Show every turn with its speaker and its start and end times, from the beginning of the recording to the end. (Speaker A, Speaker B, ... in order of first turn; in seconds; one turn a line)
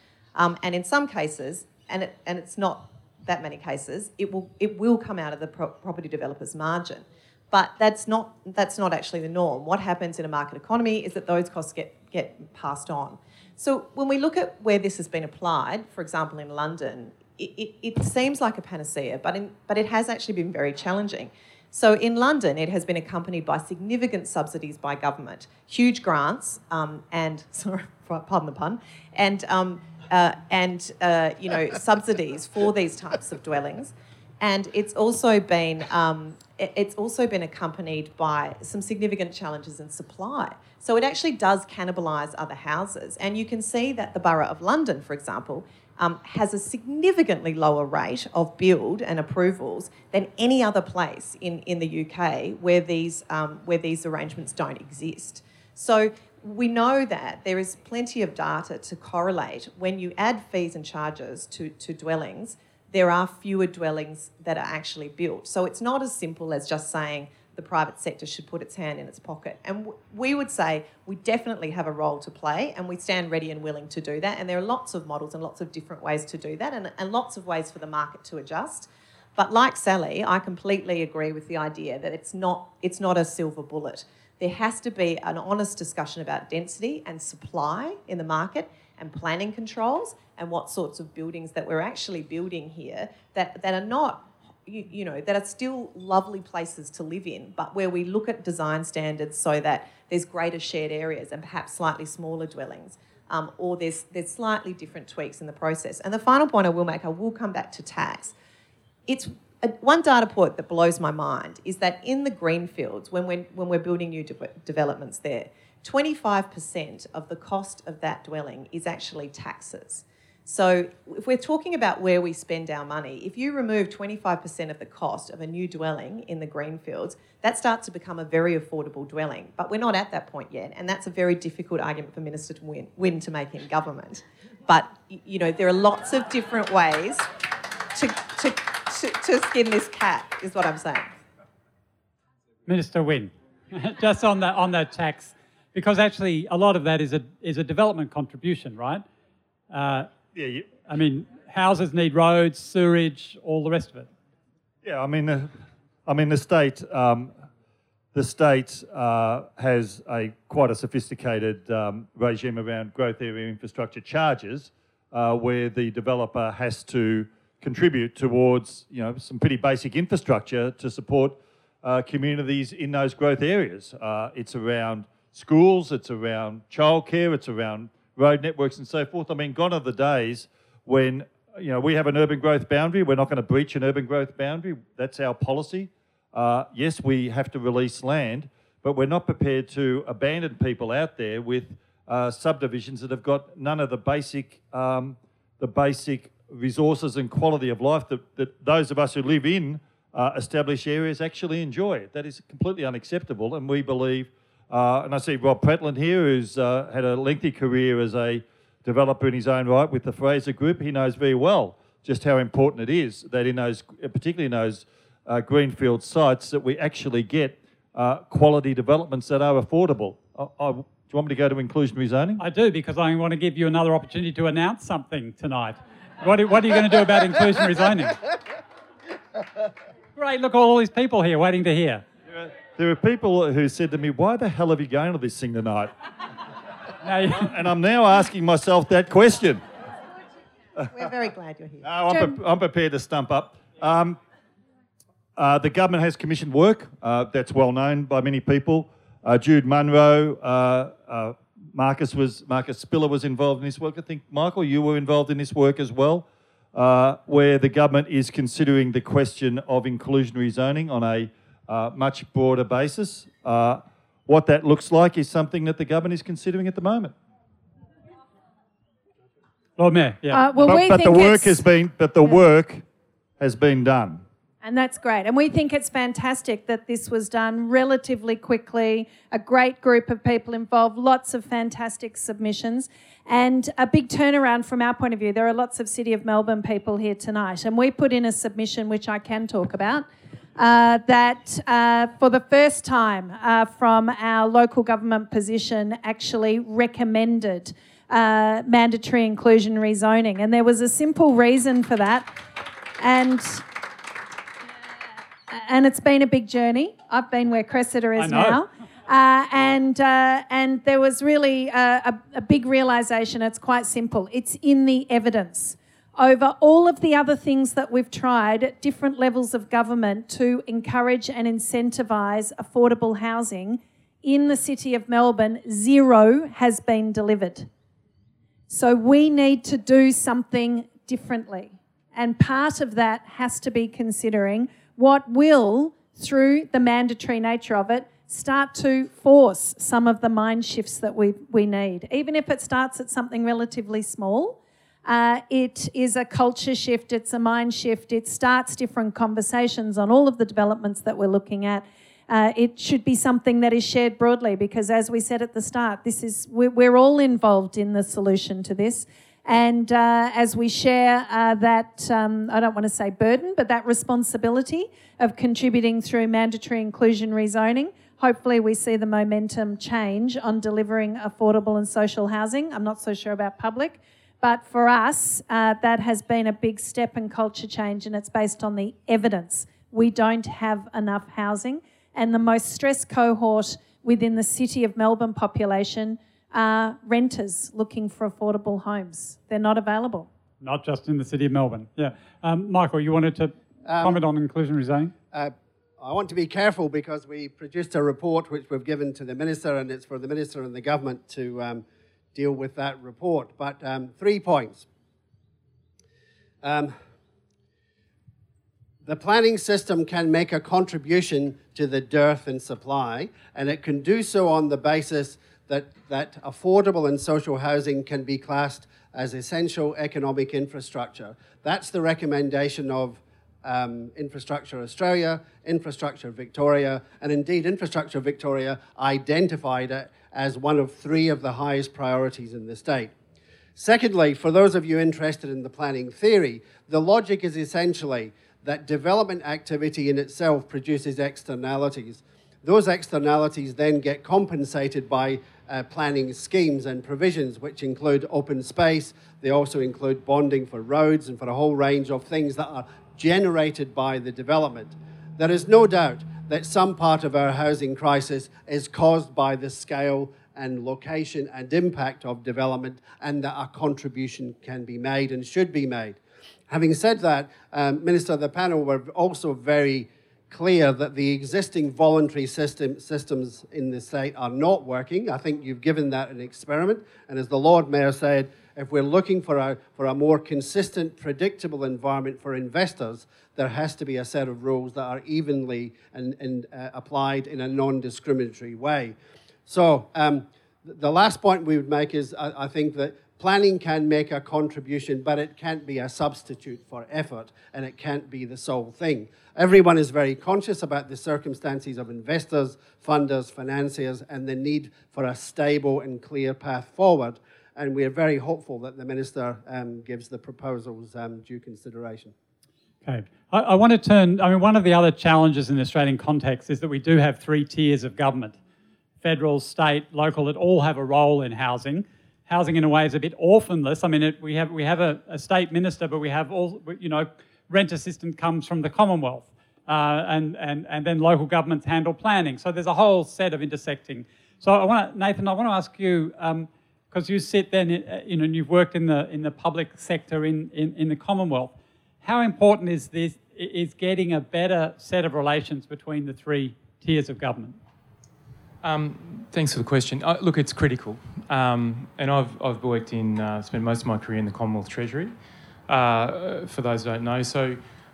Speaker A: 0.3-108.3
Speaker A: 109.1-137.3
Speaker A: 137.9-141.1
Speaker B: 142.7-149.0
Speaker B: 149.7-150.1
Speaker C: 150.3-150.7
Speaker B: 150.9-154.1
Speaker C: 154.8-155.5
Speaker C: 156.1-157.3
Speaker C: 158.1-222.4
Speaker B: 222.4-228.2
Speaker B: 230.2-232.0
Speaker C: 232.3-235.9
Speaker B: 237.0-237.5
Speaker C: 237.4-239.6
Speaker A: 240.9-241.9
Speaker C: 241.8-244.2
Speaker C: 245.4-267.1
Speaker B: 269.8-270.4
Speaker D: 270.3-271.6
Speaker C: 270.6-272.8
Speaker C: 273.4-274.2
Speaker D: 274.6-290.1
Speaker D: 290.6-302.3
Speaker D: 303.0-303.6
Speaker D: 305.5-327.7
Speaker B: 308.2-308.6
Speaker D: 328.7-390.3
Speaker B: 390.6-395.1
Speaker E: 393.9-394.2
Speaker E: 395.3-401.8
Speaker E: 402.4-404.9
Speaker E: 406.6-406.9
Speaker E: 409.0-433.1
Speaker E: 433.8-466.2
Speaker E: 466.7-489.1
Speaker E: 489.7-512.3
Speaker B: 513.0-518.6
Speaker B: 519.2-547.8
Speaker F: 548.8-555.3
Speaker F: 555.9-557.8